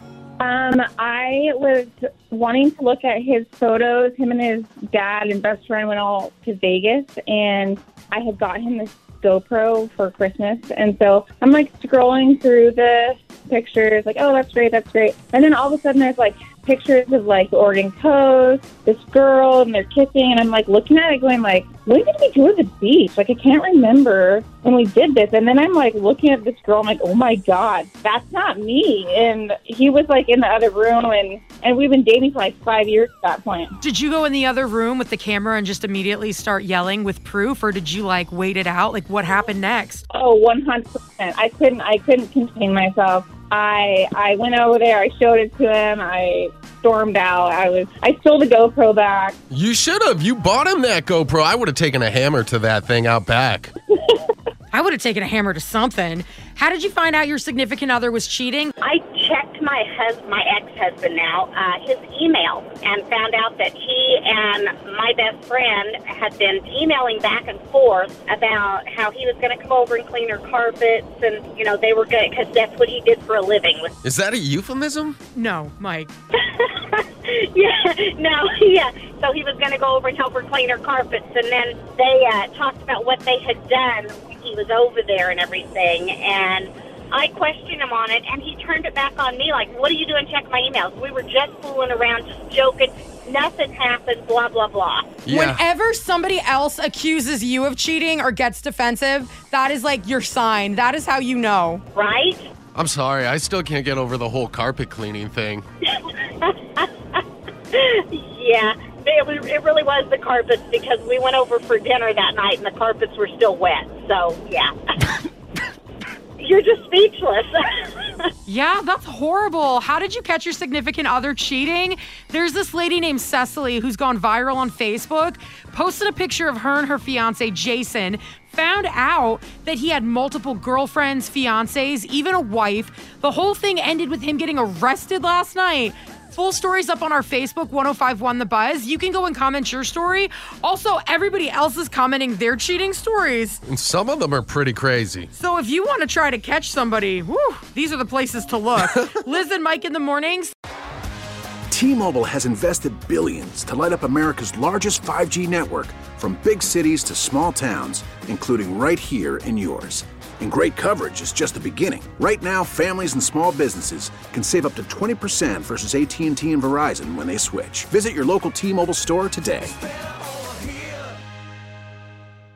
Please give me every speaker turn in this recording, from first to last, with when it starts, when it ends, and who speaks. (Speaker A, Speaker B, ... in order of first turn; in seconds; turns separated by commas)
Speaker A: 0.4-33.8, Speaker B: 33.8-40.0, Speaker A: 40.1-49.3, Speaker C: 49.5-53.7, Speaker B: 54.7-58.7, Speaker D: 58.8-73.9, Speaker C: 74.0-75.2, Speaker B: 75.3-76.1, Speaker D: 76.3-95.2, Speaker B: 95.3-101.8, Speaker C: 95.3-95.6, Speaker D: 102.0-102.5, Speaker C: 102.8-105.7, Speaker D: 106.4-107.2, Speaker D: 107.7-114.8, Speaker D: 116.4-118.3, Speaker B: 118.5-143.6, Speaker C: 143.7-145.3, Speaker B: 145.3-150.5, Speaker E: 151.7-169.7